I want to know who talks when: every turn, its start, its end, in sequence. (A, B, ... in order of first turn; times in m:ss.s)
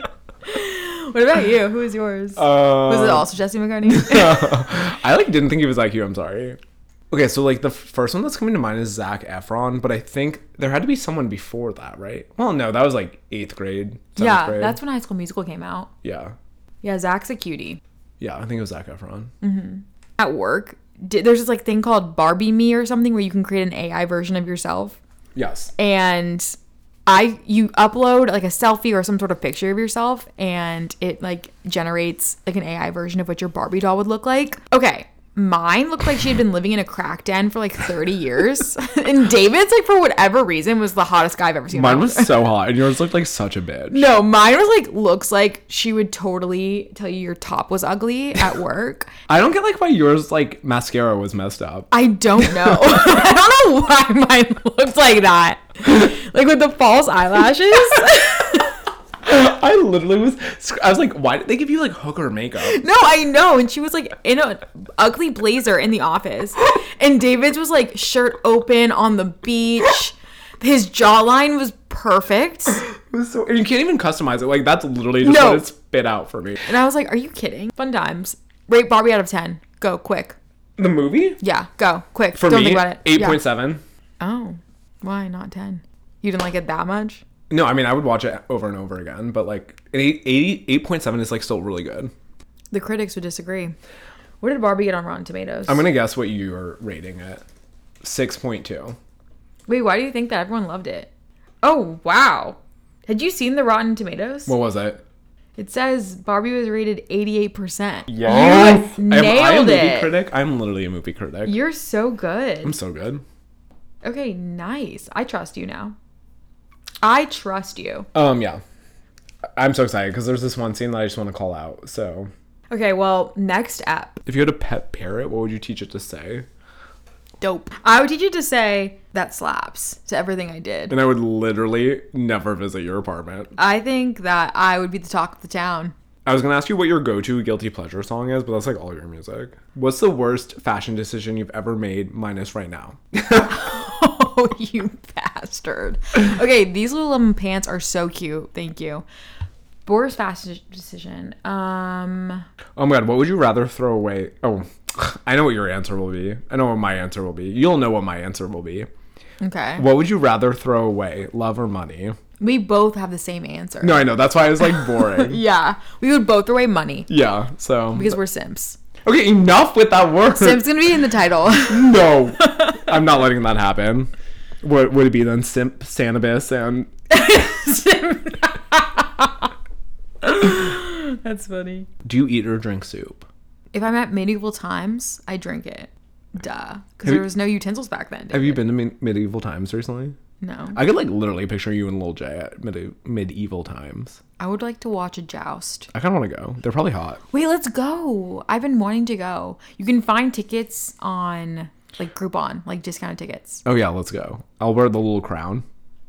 0:00.4-0:04.6 A
0:02.4-0:03.3 B
0:03.8-0:06.6 B
0:07.1-0:14.8 B
0:14.2-0:15.9 A
0:16.0-0:16.3 B
0:16.8-0:17.8 A
0:18.2-0:19.3 B
0:19.4-0:25.0 A
0:25.4-0:25.7 B
0:25.8-0:26.5 A
0:27.0-0:42.5 A
0:41.7-0:44.1 B
0:43.9-0:49.1 A
0:49.3-0:51.9 B
0:51.9-0:58.8 A
0:59.2-1:02.8 B
1:02.6-1:12.8 A
1:13.0-1:16.7 B
1:15.2-1:15.7 A
1:16.6-1:20.4 A
1:20.8-1:21.4 B
1:21.4-1:23.4 A
1:22.3-1:23.8 B
1:24.2-1:27.2 A
1:27.5-1:32.1 B
1:32.7-1:33.7 A
1:34.4-1:35.8 A
1:35.7-1:37.4 B
1:38.0-1:39.0 B
1:39.7-1:41.1 A
1:41.6-1:44.5 A
1:44.5-1:45.0 B
1:45.6-1:50.1 A
1:48.1-1:51.6 B
1:51.4-1:52.7 A
1:52.6-1:53.2 B
1:54.0-1:55.9 A
1:57.0-1:58.1 A
1:58.1-1:58.6 B
1:59.6-2:02.3 B
2:02.7-2:04.2 A
2:04.2-2:06.4 B
2:07.4-2:10.9 A
2:10.9-2:13.5 B
2:13.6-2:15.9 A
2:16.2-2:23.6 B
2:23.4-2:29.0 A
2:29.8-2:32.4 A
2:32.8-2:38.9 B
2:39.4-2:39.8 A
2:39.8-2:42.2 B
2:42.4-2:47.1 A
2:43.8-2:45.4 B
2:47.1-2:48.2 B
2:47.9-2:48.8 A
2:49.0-2:50.7 B
2:50.3-2:52.9 A
2:51.6-2:56.9 B
2:57.1-2:59.5 A
3:00.2-3:01.9 A
3:02.0-3:03.3 B
3:03.7-3:08.6 A
3:08.3-3:10.2 B
3:10.4-3:10.8 A
3:10.7-3:14.2 B
3:14.4-3:15.9 A
3:15.9-3:17.2 B
3:17.3-3:23.6 A
3:23.6-3:25.6 B